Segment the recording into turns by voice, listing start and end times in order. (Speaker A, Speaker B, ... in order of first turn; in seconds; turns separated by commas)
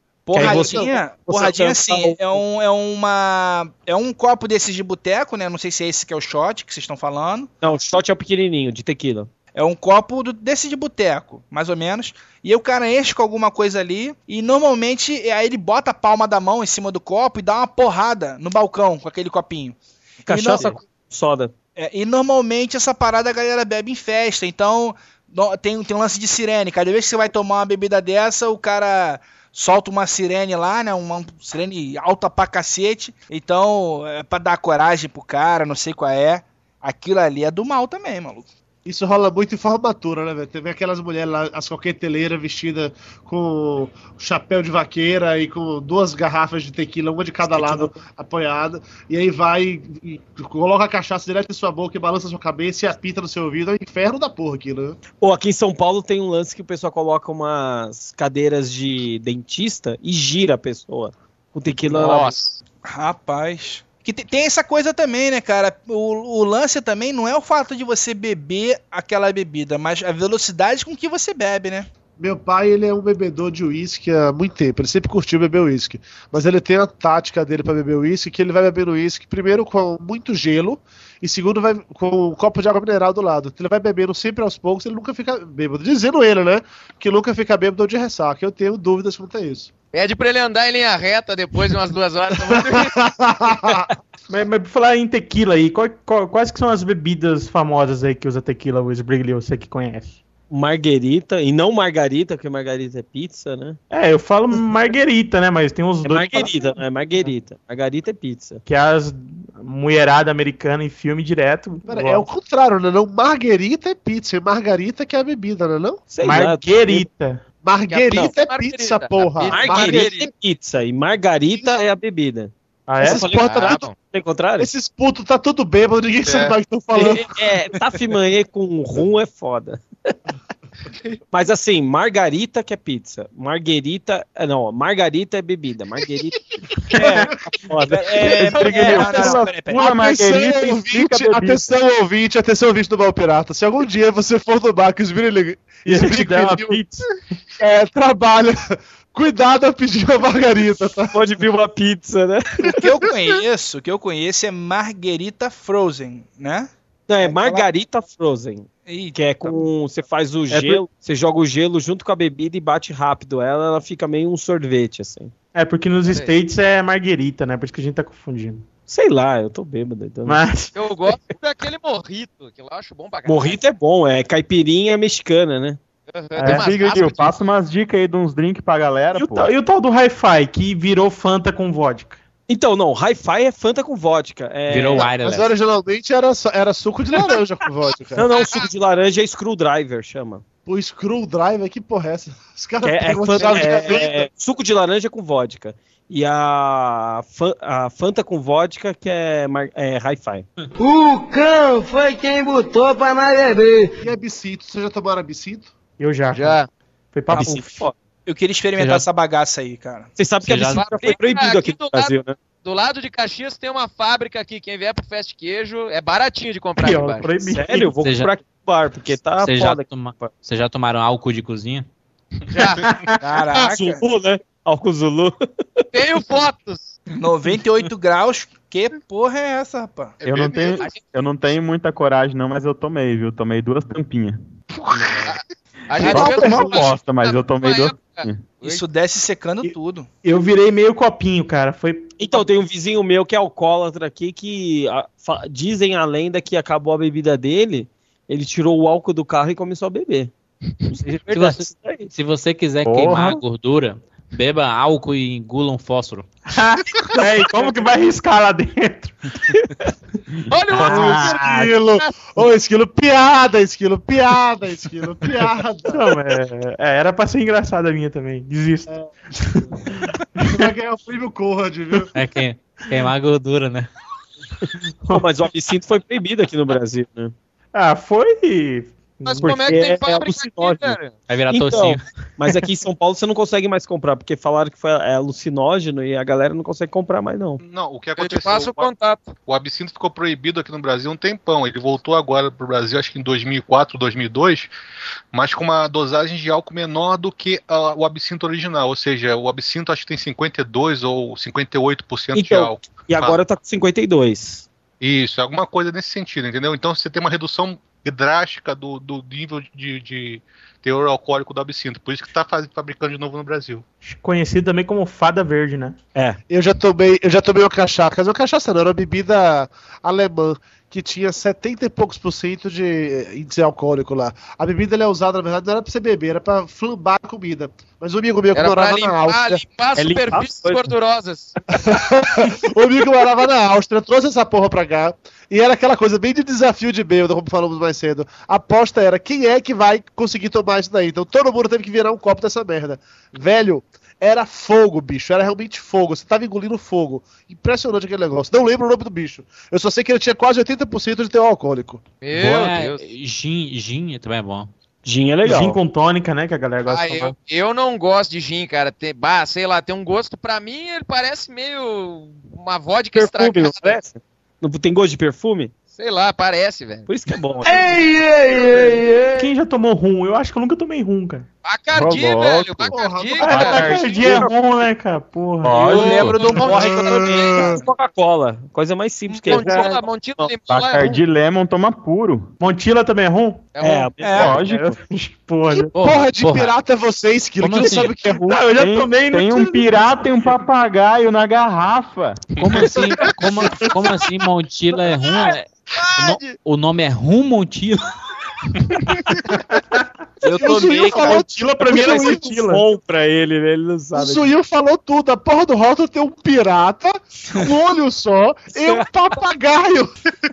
Speaker A: 0.2-7.5, Speaker B: 0.3-2.4, Speaker C: 0.4-1.0, Speaker B: 7.6-9.3, Speaker A: 9.5-20.8, Speaker B: 20.2-21.5, Speaker A: 21.8-38.5, Speaker C: 38.9-55.0, Speaker B: 55.2-62.4, Speaker D: 61.7-62.6, Speaker A: 62.9-71.9, Speaker C: 72.2-89.7, Speaker D: 89.9-92.9, Speaker C: 92.4-93.9, Speaker E: 94.3-100.2, Speaker B: 100.5-103.8, Speaker E: 103.9-107.3, Speaker B: 106.0-108.6, Speaker E: 108.6-112.3, Speaker C: 111.9-116.0, Speaker B: 116.1-117.0, Speaker E: 116.2-117.4, Speaker C: 117.6-120.3, Speaker D: 117.9-120.3, Speaker B: 119.4-124.7, Speaker E: 122.9-123.6, Speaker C: 123.0-123.8, Speaker D: 123.4-123.9, Speaker C: 124.6-127.4, Speaker F: 126.2-126.6, Speaker B: 126.9-129.8, Speaker B: 131.3-136.3, Speaker E: 136.9-137.3, Speaker B: 136.9-139.6, Speaker A: 137.9-140.0, Speaker G: 138.2-141.8, Speaker C: 139.7-146.8, Speaker E: 145.8-147.1, Speaker C: 147.6-151.1, Speaker B: 151.1-152.9, Speaker A: 152.7-156.7, Speaker B: 157.1-165.3, Speaker A: 157.2-157.7, Speaker A: 158.8-159.6, Speaker E: 160.5-160.8, Speaker E: 165.5-168.6, Speaker B: 168.9-170.4, Speaker E: 170.2-170.7, Speaker D: 170.7-173.6, Speaker B: 173.2-175.8, Speaker D: 176.1-177.3, Speaker E: 176.4-176.7, Speaker G: 176.4-179.5, Speaker E: 179.2-182.2, Speaker B: 182.5-185.1, Speaker H: 184.7-185.5, Speaker C: 184.9-188.3, Speaker B: 188.1-190.4, Speaker D: 188.3-188.7, Speaker C: 190.7-194.3, Speaker B: 192.8-200.5, Speaker I: 200.8-203.9, Speaker C: 204.0-205.7, Speaker E: 206.0-206.6, Speaker D: 206.3-206.7, Speaker E: 207.1-207.9, Speaker A: 207.3-207.6, Speaker B: 207.3-207.9, Speaker A: 208.2-210.2, Speaker H: 208.8-209.1, Speaker B: 210.2-212.4, Speaker H: 210.4-210.8, Speaker D: 210.7-217.3, Speaker E: 216.8-217.9, Speaker B: 217.4-220.3, Speaker H: 218.0-218.3, Speaker H: 219.4-221.9, Speaker D: 222.5-222.8, Speaker A: 223.2-224.0, Speaker B: 223.4-225.8, Speaker D: 225.9-227.0, Speaker A: 227.2-230.4, Speaker F: 230.2-230.8, Speaker G: 230.2-234.4, Speaker G: 234.9-235.3, Speaker D: 235.2-238.8, Speaker G: 236.0-238.4, Speaker C: 236.0-236.8, Speaker A: 238.6-240.1, Speaker E: 240.2-242.4, Speaker B: 242.2-250.3, Speaker H: 251.0-256.3, Speaker B: 251.1-252.1, Speaker G: 252.8-253.4, Speaker E: 256.5-259.1, Speaker D: 260.5-262.3, Speaker G: 260.5-261.4, Speaker C: 260.8-266.0, Speaker E: 265.9-269.6, Speaker C: 268.9-269.7, Speaker C: 270.4-272.1, Speaker H: 272.1-273.9, Speaker B: 275.1-277.3, Speaker E: 277.7-279.6, Speaker D: 279.2-281.2, Speaker B: 279.4-287.6, Speaker H: 281.3-282.1, Speaker F: 287.6-294.7, Speaker D: 288.2-289.3, Speaker F: 295.3-303.4, Speaker B: 302.3-304.7, Speaker F: 305.0-313.8, Speaker E: 314.0-316.0, Speaker C: 316.5-329.6, Speaker D: 328.5-331.6, Speaker B: 329.9-330.9, Speaker C: 331.7-352.0, Speaker D: 352.2-353.0, Speaker H: 352.3-354.7, Speaker B: 355.0-355.8, Speaker E: 355.4-357.3, Speaker D: 356.8-364.0, Speaker B: 363.1-365.7, Speaker D: 365.9-367.1, Speaker B: 367.1-367.7, Speaker I: 367.6-369.5, Speaker E: 369.4-371.4, Speaker D: 371.6-373.9, Speaker G: 371.9-374.5, Speaker C: 372.9-374.1, Speaker E: 373.4-375.8, Speaker B: 373.8-374.5, Speaker G: 375.6-377.5, Speaker A: 375.7-377.8, Speaker H: 375.9-376.4, Speaker D: 376.2-377.8, Speaker B: 376.5-380.1, Speaker D: 379.3-381.2, Speaker G: 380.7-382.5, Speaker E: 382.6-383.6, Speaker D: 383.7-384.3, Speaker B: 383.8-385.0, Speaker A: 384.2-384.6, Speaker G: 384.4-384.9, Speaker E: 385.0-385.9, Speaker C: 385.8-388.6, Speaker H: 385.9-386.7, Speaker H: 387.6-388.2, Speaker E: 388.5-390.5, Speaker G: 388.8-393.0, Speaker H: 392.6-398.0, Speaker D: 395.2-396.6, Speaker B: 400.4-404.5, Speaker C: 400.5-402.6, Speaker E: 401.0-402.8, Speaker C: 404.1-410.3, Speaker B: 408.7-409.0